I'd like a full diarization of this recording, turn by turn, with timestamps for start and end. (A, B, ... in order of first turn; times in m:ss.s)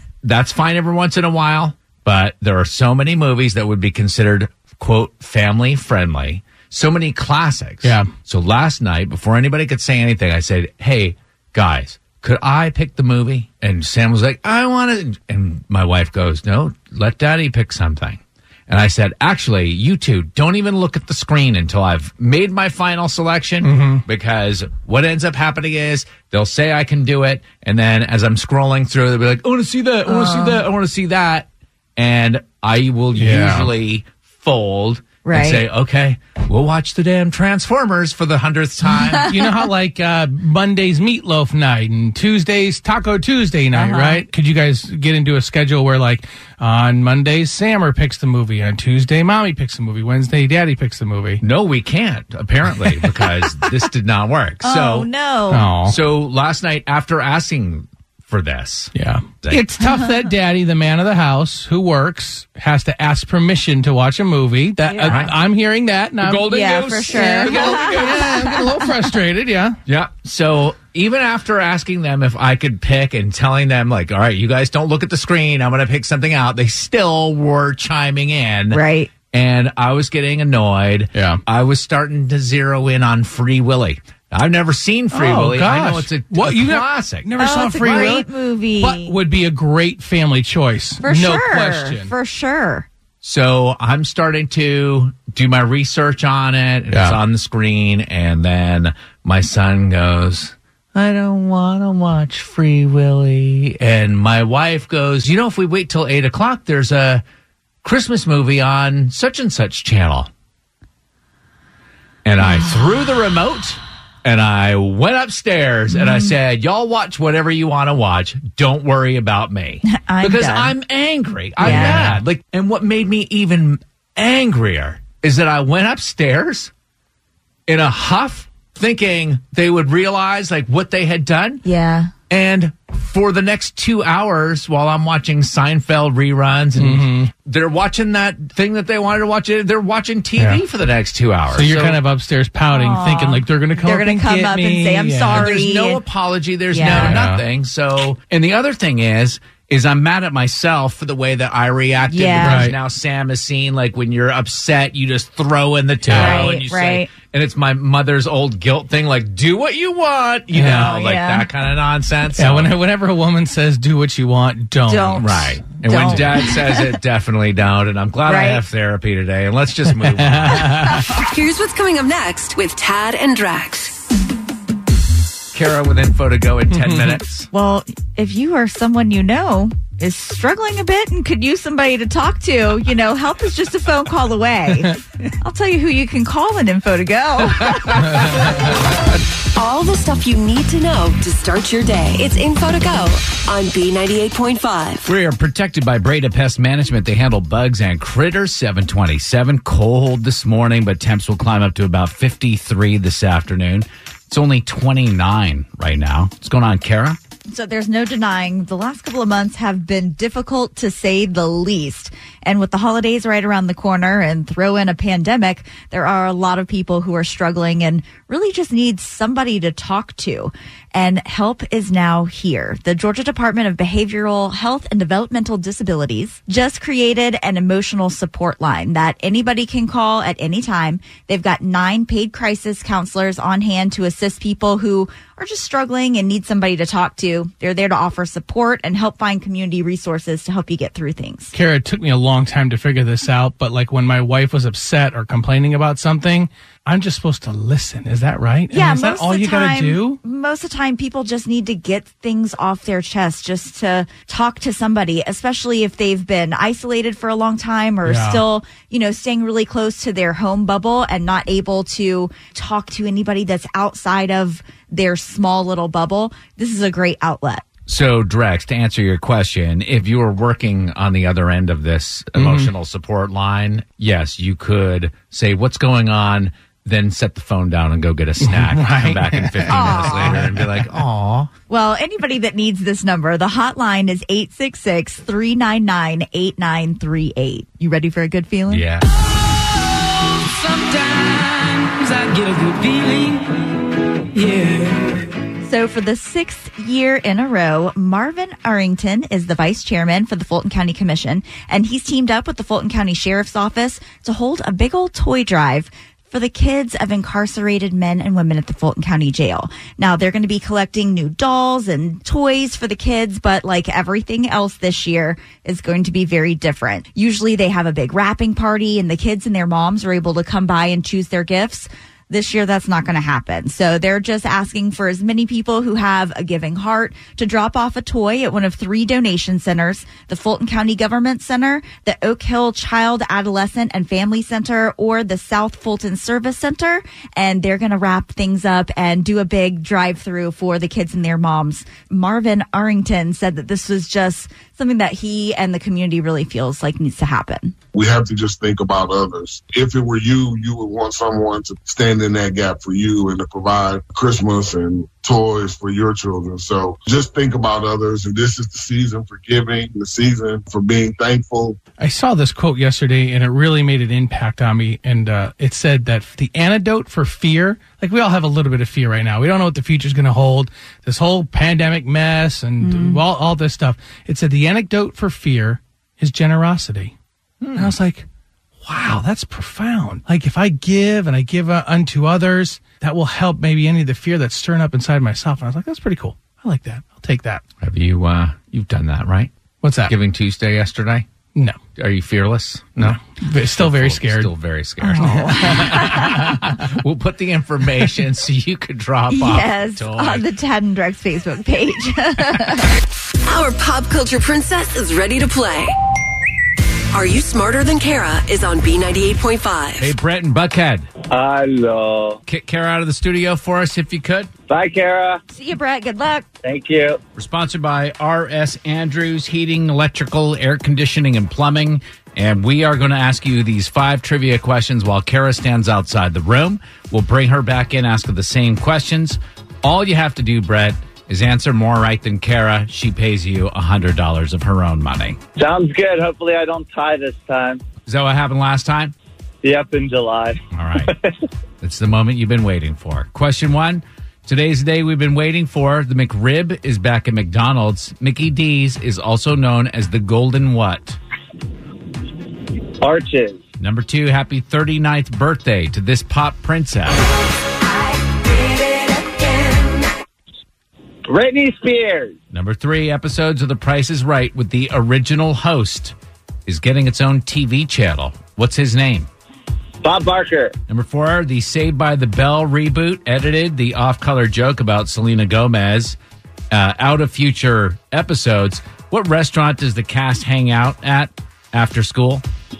0:00.2-0:39.3 A
0:07.8-0:08.1 B
0:23.6-0:24.0 B
0:30.1-0:30.6 C
0:33.2-0:33.7 B
0:35.2-0:35.7 C
0:39.2-0:51.4 B
0:43.7-0:44.2 C
0:51.4-0:55.1 A
0:54.6-0:55.7 C
0:55.5-0:56.0 B
0:55.9-0:59.6 A
0:58.9-1:09.8 B
1:04.9-1:05.2 C
1:05.1-1:05.4 A
1:06.2-1:08.6 A
1:06.5-1:08.8 C
1:09.9-1:27.3 A
1:18.7-1:19.1 C
1:21.2-1:21.4 B
1:25.1-1:28.3 B
1:27.4-1:29.2 C
1:28.8-1:32.1 B
1:31.0-1:32.9 C
1:33.2-1:47.2 A
1:36.9-1:37.2 B
1:47.8-1:50.3 A
1:52.2-2:06.7 A
1:55.9-1:56.3 C
1:59.8-2:00.7 C
2:01.6-2:02.2 C
2:01.6-2:02.2 B
2:07.7-2:11.6 A
2:11.6-2:12.1 C
2:12.3-2:22.0 A
2:16.8-2:17.3 B
2:20.4-2:20.6 B
2:21.5-2:25.5 B
2:22.7-2:26.0 C
2:25.3-2:42.8 A
2:26.7-2:27.2 C
2:26.9-2:27.4 B
2:32.1-2:32.7 C
2:32.4-2:32.8 B
2:36.0-2:36.5 B
2:36.1-2:37.1 C
2:40.5-2:40.9 B
2:40.7-2:41.5 C
2:42.4-2:46.2 B
2:44.9-2:46.8 C
2:45.2-2:51.0 A
2:48.3-2:48.6 C
2:50.0-2:51.1 B
2:51.1-2:54.0 D
2:55.5-2:57.5 A
2:57.5-3:08.2 C
3:07.6-3:08.1 A
3:09.6-3:15.1 D
3:15.0-3:27.2 A
3:27.5-4:01.5 C
4:01.5-4:10.2 B
4:08.7-4:27.6 C
4:18.0-4:18.4 B
4:27.9-4:41.5 A
4:32.4-4:32.7 B
4:38.4-4:40.9 B
4:39.7-4:40.4 C
4:41.7-4:48.8 C
4:48.7-4:49.1 A
4:50.4-4:53.6 E
4:54.3-4:55.2 E
4:55.6-5:47.7 C
5:47.9-6:01.8 F
6:02.0-6:17.1 B
6:12.8-6:13.2 C
6:17.6-6:17.9 A
6:17.8-6:18.3 B
6:18.8-6:27.6 B
6:27.8-6:29.5 A
6:29.8-6:30.1 B
6:30.1-6:31.3 A
6:31.6-6:31.8 B
6:32.0-6:33.2 A
6:33.0-6:34.5 B
6:33.7-6:40.5 A
6:35.0-6:36.4 C
6:35.2-6:36.6 B
6:39.3-6:42.9 C
6:43.4-6:46.0 D
6:47.1-6:50.2 D
6:50.0-6:51.1 A
6:51.3-6:52.4 G
6:52.5-6:54.5 A
6:54.7-6:55.4 G
6:55.5-6:56.5 C
6:56.6-6:57.2 G
6:57.4-7:15.4 A
7:15.6-7:17.8 G
7:18.1-7:19.2 A
7:19.6-7:21.3 G
7:20.7-7:21.1 A
7:21.8-7:31.2 A
7:33.0-7:33.6 G
7:33.8-7:37.2 A
7:41.3-7:42.4 G
7:42.5-7:46.2 A
7:46.7-7:49.3 A
7:50.0-7:50.7 G
7:50.9-7:56.2 A
7:56.7-8:02.4 A